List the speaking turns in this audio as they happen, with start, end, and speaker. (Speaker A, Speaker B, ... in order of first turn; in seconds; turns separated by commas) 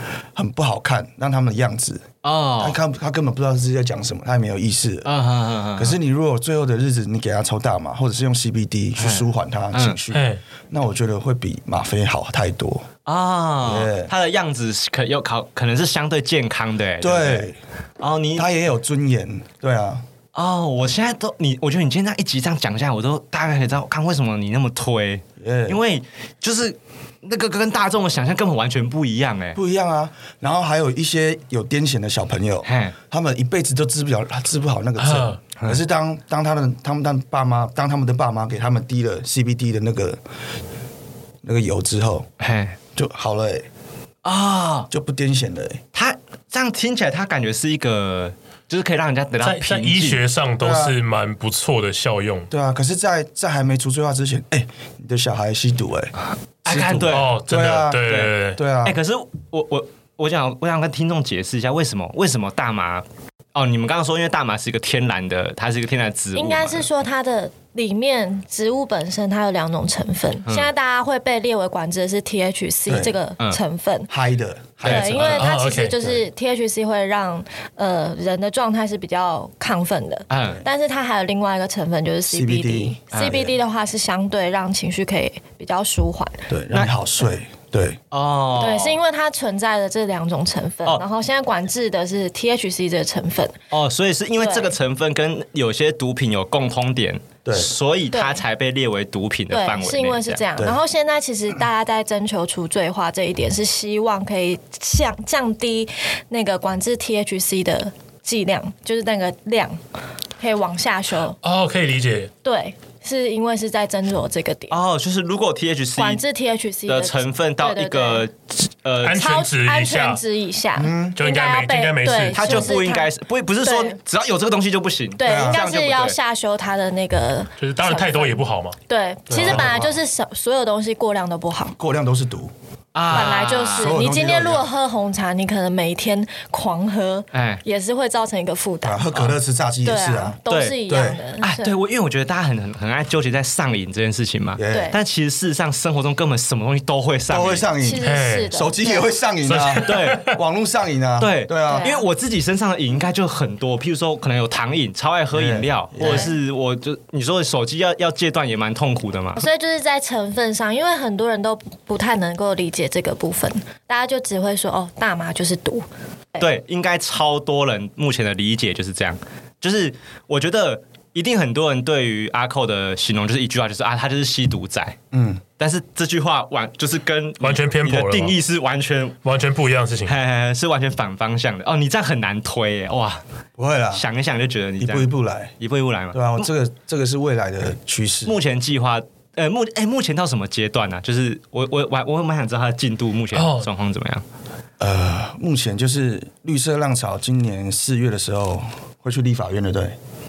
Speaker A: 0.3-2.0, Speaker B: 2.2-2.8, Speaker A: 2.6-5.1, Speaker B: 5.0-6.0, Speaker A: 5.8-12.8, Speaker B: 9.0-10.0, Speaker C: 10.1-10.4, Speaker B: 13.0-18.5, Speaker A: 13.6-14.1, Speaker A: 17.0-17.6, Speaker A: 18.4-20.0, Speaker B: 20.3-29.6, Speaker A: 25.4-25.8, Speaker A: 29.5-40.2, Speaker B: 32.6-33.0, Speaker C: 35.0-35.4, Speaker A: 41.4-42.3, Speaker B: 42.4-42.8, Speaker A: 43.0-43.7, Speaker B: 44.2-44.9, Speaker A: 44.9-45.8, Speaker B: 45.9-50.2, Speaker C: 49.4-52.5, Speaker A: 50.6-51.0, Speaker A: 52.5-56.1, Speaker B: 56.6-57.3, Speaker A: 56.6-59.0, Speaker C: 57.1-58.6, Speaker B: 58.0-58.3, Speaker B: 58.8-63.0, Speaker B: 63.5-66.9, Speaker D: 66.3-74.1, Speaker A: 72.9-73.2, Speaker A: 74.1-75.4, Speaker B: 74.8-75.4, Speaker D: 74.8-86.4, Speaker C: 75.1-76.0, Speaker B: 80.3-80.6, Speaker A: 82.3-83.5, Speaker B: 83.1-83.4, Speaker A: 86.5-88.0, Speaker B: 88.1-89.0, Speaker D: 88.6-93.6, Speaker B: 93.7-100.4, Speaker D: 94.4-94.7, Speaker A: 97.4-97.7, Speaker D: 98.1-98.4, Speaker D: 99.5-109.8, Speaker D: 110.4-111.4, Speaker C: 111.4-112.3, Speaker D: 112.4-114.8, Speaker B: 114.7-116.2, Speaker D: 116.0-118.3, Speaker B: 116.8-119.3, Speaker C: 119.0-120.2, Speaker D: 119.1-123.1, Speaker A: 120.8-121.2, Speaker C: 121.2-122.8, Speaker B: 122.3-126.2, Speaker D: 123.6-124.0, Speaker D: 125.2-131.8, Speaker A: 125.2-125.7, Speaker C: 127.6-128.8, Speaker A: 129.3-130.0, Speaker A: 131.8-132.5, Speaker B: 132.9-134.0, Speaker A: 133.1-134.7, Speaker D: 133.1-139.1, Speaker B: 137.3-137.6, Speaker A: 138.8-141.2, Speaker D: 139.8-141.7, Speaker B: 140.5-140.8, Speaker B: 141.4-147.7, Speaker A: 144.6-144.9, Speaker D: 144.7-145.0, Speaker A: 147.3-151.9, Speaker D: 147.8-149.1, Speaker C: 148.0-148.5, Speaker C: 149.4-150.4, Speaker B: 149.8-150.3, Speaker B: 151.2-159.5, Speaker D: 151.7-152.0, Speaker A: 155.3-156.3, Speaker D: 156.0-156.3, Speaker D: 159.3-166.4, Speaker B: 166.4-175.0, Speaker A: 175.1-175.4, Speaker B: 175.6-179.2, Speaker C: 177.4-178.4, Speaker C: 179.2-180.1, Speaker B: 180.0-183.2, Speaker A: 183.6-184.0, Speaker B: 183.9-186.5, Speaker A: 184.8-185.5, Speaker A: 186.1-188.4, Speaker B: 188.2-194.2, Speaker C: 193.3-193.7, Speaker A: 194.8-199.9